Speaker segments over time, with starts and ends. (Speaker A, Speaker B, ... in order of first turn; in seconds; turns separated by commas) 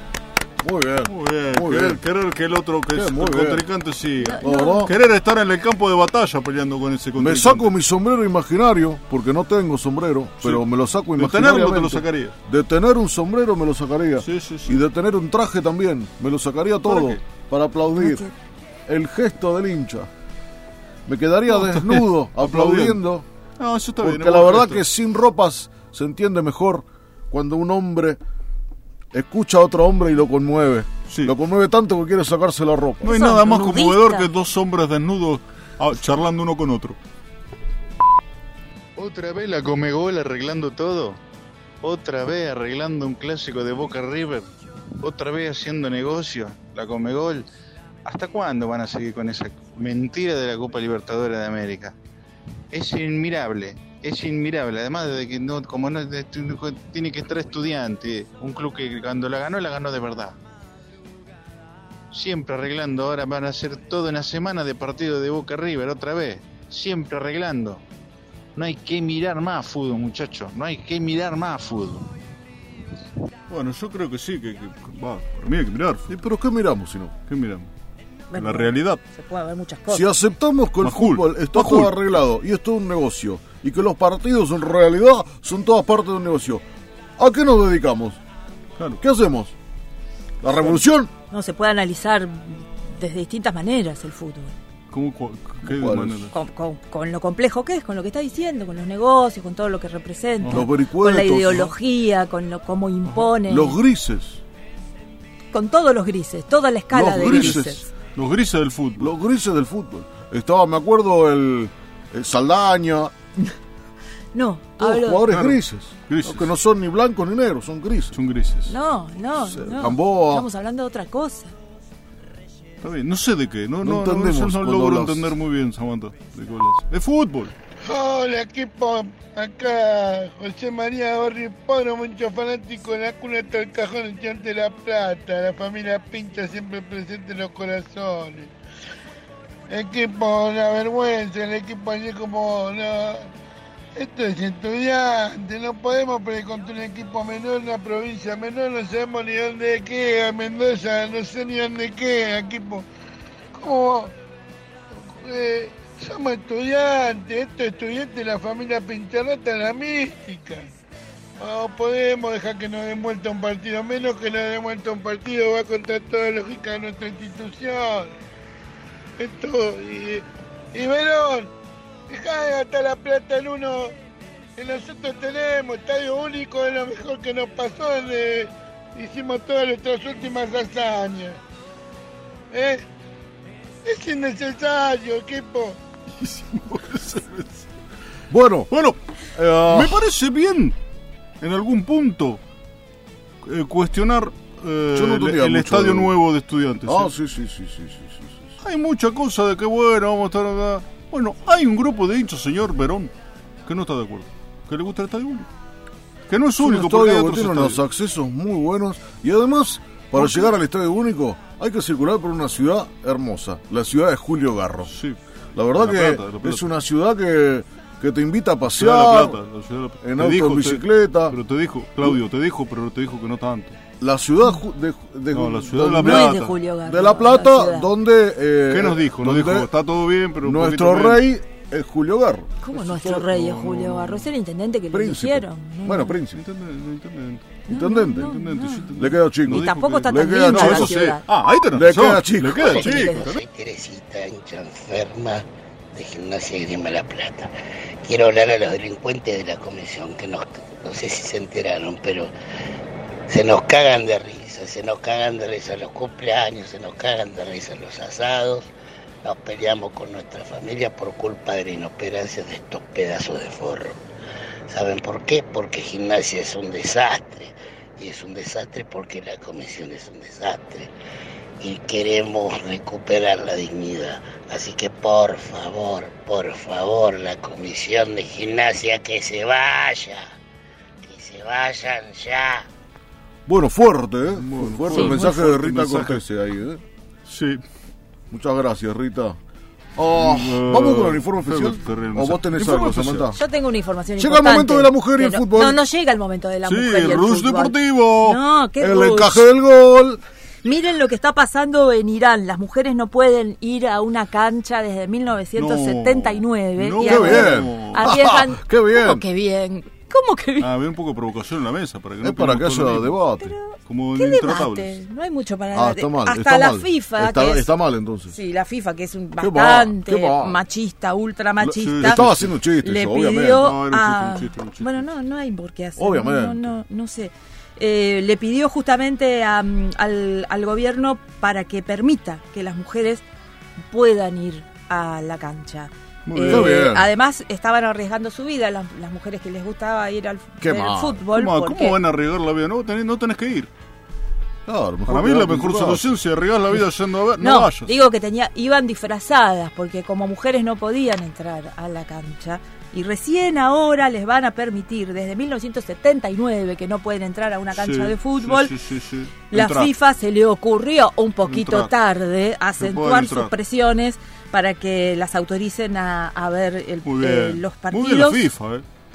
Speaker A: 0.6-2.0, Speaker B: 1.1-7.8, Speaker A: 2.9-3.6, Speaker C: 4.2-4.9, Speaker A: 4.4-4.9, Speaker A: 7.2-18.2, Speaker B: 10.4-12.3, Speaker B: 14.2-14.8, Speaker B: 16.8-17.2, Speaker C: 18.0-18.3, Speaker A: 18.9-20.1, Speaker A: 21.1-23.2, Speaker B: 21.5-23.0, Speaker B: 23.6-24.8, Speaker A: 24.0-28.2, Speaker A: 29.1-33.1, Speaker B: 33.0-37.0, Speaker C: 33.0-34.3, Speaker D: 39.0-41.2, Speaker D: 41.8-44.5, Speaker D: 45.0-47.5, Speaker D: 48.0-52.0, Speaker D: 52.7-60.4, Speaker D: 62.1-67.8, Speaker D: 68.6-72.1, Speaker B: 73.5-76.1, Speaker A: 76.1-77.1, Speaker B: 77.3-77.7, Speaker C: 78.3-80.1, Speaker B: 78.3-79.0, Speaker A: 79.9-86.6, Speaker B: 80.8-82.0, Speaker A: 87.2-88.2, Speaker A: 89.0-89.5, Speaker A: 90.4-91.1, Speaker C: 91.3-94.5, Speaker B: 94.9-96.3, Speaker A: 95.7-96.3, Speaker C: 96.3-103.8, Speaker B: 100.4-100.7, Speaker A: 100.5-101.7, Speaker A: 103.4-104.4, Speaker C: 105.5-107.8, Speaker A: 106.9-107.8, Speaker B: 107.2-107.6, Speaker B: 108.2-109.1, Speaker A: 109.0-113.1, Speaker C: 114.3-115.3, Speaker A: 114.8-118.2, Speaker B: 115.3-116.5, Speaker B: 118.1-118.7, Speaker C: 118.7-121.5, Speaker A: 119.4-120.5, Speaker B: 122.8-127.5, Speaker A: 123.8-125.3, Speaker E: 127.8-138.5, Speaker E: 139.7-143.3, Speaker E: 144.0-152.9, Speaker E: 153.6-154.1, Speaker E: 155.1-160.7, Speaker E: 161.4-168.1, Speaker E: 169.2-171.5, Speaker E: 172.1-173.9, Speaker E: 174.6-181.4, Speaker E: 182.5-182.8, Speaker E: 183.8-185.8, Speaker B: 186.2-187.5, Speaker A: 188.3-188.7, Speaker B: 188.7-190.8, Speaker A: 189.4-190.0, Speaker B: 191.4-192.4, Speaker B: 193.4-197.1, Speaker A: 194.9-196.2, Speaker A: 196.8-198.5, Speaker B: 198.6-203.1, Speaker B: 203.7-205.5, Speaker B: 206.3-207.8, Speaker A: 206.6-214.9, Speaker B: 210.2-210.6, Speaker B: 214.9-215.2, Speaker A: 215.6-219.4, Speaker B: 215.8-216.7, Speaker B: 218.7-223.8, Speaker A: 220.0-221.4, Speaker A: 224.0-229.7, Speaker B: 225.3-226.6, Speaker C: 226.0-227.9, Speaker B: 228.7-231.3, Speaker A: 230.4-232.6, Speaker C: 232.6-236.2, Speaker B: 232.7-234.3, Speaker A: 234.9-236.4, Speaker B: 236.3-243.4, Speaker A: 237.7-238.3, Speaker C: 237.7-238.9, Speaker A: 239.0-241.0, Speaker C: 239.4-241.2, Speaker A: 241.7-242.9, Speaker C: 242.6-243.4, Speaker F: 242.6-252.3, Speaker F: 253.3-258.7, Speaker F: 259.2-264.0, Speaker F: 264.7-270.9, Speaker F: 271.6-280.3, Speaker F: 281.0-282.7, Speaker A: 283.5-286.8, Speaker B: 284.4-286.2, Speaker C: 284.9-285.4, Speaker B: 287.3-287.6, Speaker A: 288.3-289.4, Speaker A: 290.0-293.4, Speaker B: 290.1-293.4, Speaker C: 293.3-299.5, Speaker A: 294.2-295.8, Speaker B: 296.6-298.4, Speaker A: 298.8-300.2, Speaker C: 300.6-310.7, Speaker B: 305.6-308.1, Speaker A: 307.0-309.2, Speaker B: 310.6-313.2, Speaker A: 312.2-313.5, Speaker C: 313.4-317.7, Speaker B: 313.8-315.0, Speaker A: 315.7-318.3, Speaker C: 318.3-322.2, Speaker A: 319.4-320.6, Speaker A: 321.6-323.7, Speaker B: 321.7-322.5, Speaker C: 322.8-333.2, Speaker B: 323.6-325.1, Speaker A: 326.0-326.7, Speaker C: 333.9-342.0, Speaker B: 336.3-336.9, Speaker A: 336.5-337.1, Speaker A: 340.6-341.2, Speaker B: 341.3-343.7, Speaker A: 344.6-346.1, Speaker B: 345.1-347.9, Speaker C: 347.4-358.8, Speaker B: 357.7-359.9, Speaker C: 359.5-368.5, Speaker B: 361.5-361.9, Speaker B: 362.8-363.5, Speaker B: 367.1-368.9